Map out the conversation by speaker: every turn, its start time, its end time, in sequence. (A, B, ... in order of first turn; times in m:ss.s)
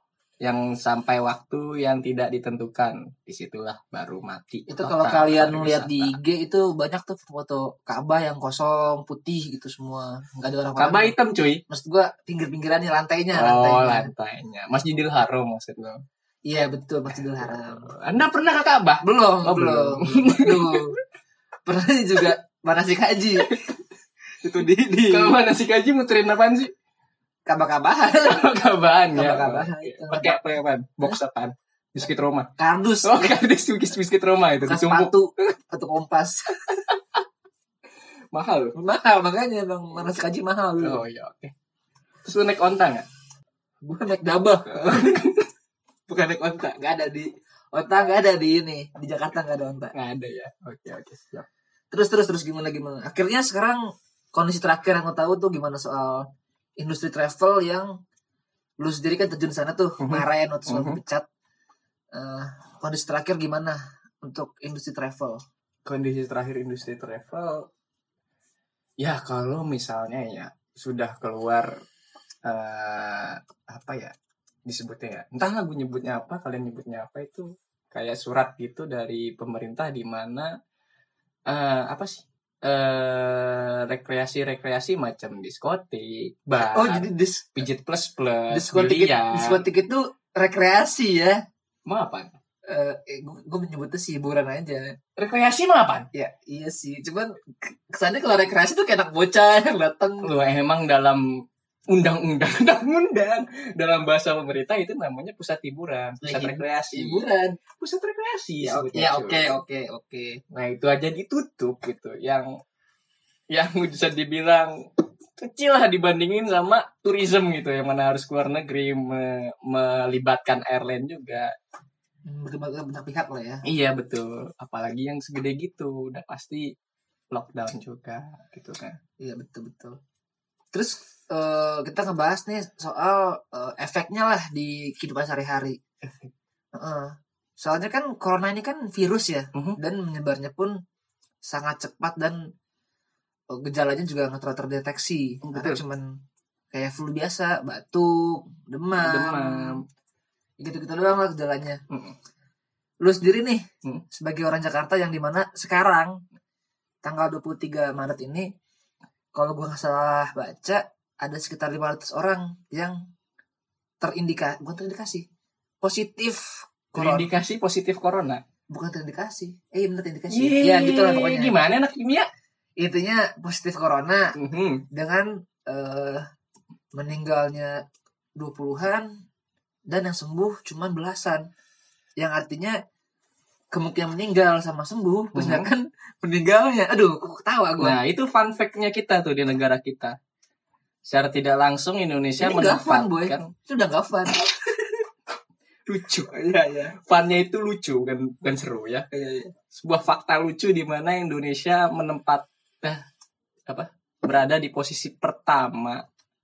0:00.4-0:06.2 A
0:04.7-0:11.2 B
0:10.8-0:11.6 A
0:11.7-0:14.1 B
0:13.3-0:16.0 A
0:16.5-0:17.9 B
0:17.3-0:21.0 A
0:19.0-0:21.0 B
0:21.7-0:23.5 B
0:23.4-0:23.7 A
0:24.4-0:25.4 B
0:25.1-0:26.7 A
0:27.5-0:28.5 B
0:28.2-0:32.5 A
0:29.1-0:30.4 B
0:32.6-0:33.4 B
0:33.0-0:35.1 A
0:34.7-0:36.8 B
0:38.3-0:38.8 A
0:38.8-0:41.0 B
0:40.8-0:41.5 A
0:42.2-0:43.1 A
0:43.8-0:45.2 B
0:44.7-0:45.5 A
0:46.1-0:49.9 B
0:49.9-0:51.5 A
0:51.9-0:53.8 B
0:54.3-0:56.3 B
0:56.8-0:57.9 B
0:58.8-1:01.3 B
1:00.0-1:01.0 A
1:02.1-1:05.4 B
1:05.8-1:07.7 A
1:09.0-1:11.7 A
1:12.4-1:14.1 A
1:14.7-1:20.5 A
1:21.5-1:29.6 A
1:26.6-1:27.7 B
1:28.5-1:31.4 B
1:31.9-1:32.4 A
1:32.7-1:35.0 B
1:35.2-1:36.1 A
1:36.1-1:40.3 B
1:40.2-1:41.2 A
1:41.9-1:47.2 A
1:46.2-1:47.6 B
1:47.8-1:49.5 A
1:48.6-1:50.4 B
1:50.5-1:52.5 A
1:53.5-1:54.7 A
1:55.4-2:01.5 A
2:02.3-2:03.6 B
2:03.6-2:06.7 A
2:07.3-2:09.0 A
2:09.2-2:10.0 B
2:10.7-2:15.8 B
2:16.0-2:16.3 A
2:16.8-2:20.8 B
2:19.5-2:19.8 A
2:21.4-2:22.4 B
2:23.5-2:26.2 B
2:25.4-2:25.8 A
2:26.7-2:29.8 B
2:29.0-2:29.8 A
2:30.6-2:31.8 B
2:31.9-2:32.2 A
2:33.0-2:36.2 B
2:37.0-2:38.5 B
2:39.4-2:43.0 B
2:44.0-2:45.2 B
2:45.8-2:47.3 B
2:47.0-2:48.4 A
2:48.7-2:51.6 B
2:50.3-2:52.3 A
2:52.8-2:54.4 B
2:54.4-2:54.9 A
2:54.9-2:56.3 B
2:56.9-2:57.8 B
2:58.4-2:59.1 B
2:59.9-3:01.4 B
3:02.2-3:02.8 B
3:03.7-3:08.0 B
3:05.4-3:05.7 A
3:07.8-3:10.2 A
3:11.1-3:13.5 A
3:12.4-3:15.0 B
3:15.9-3:16.3 A
3:16.3-3:17.0 B
3:17.0-3:19.1 A
3:19.1-3:19.5 B
3:19.7-3:23.0 A
3:23.7-3:26.0 A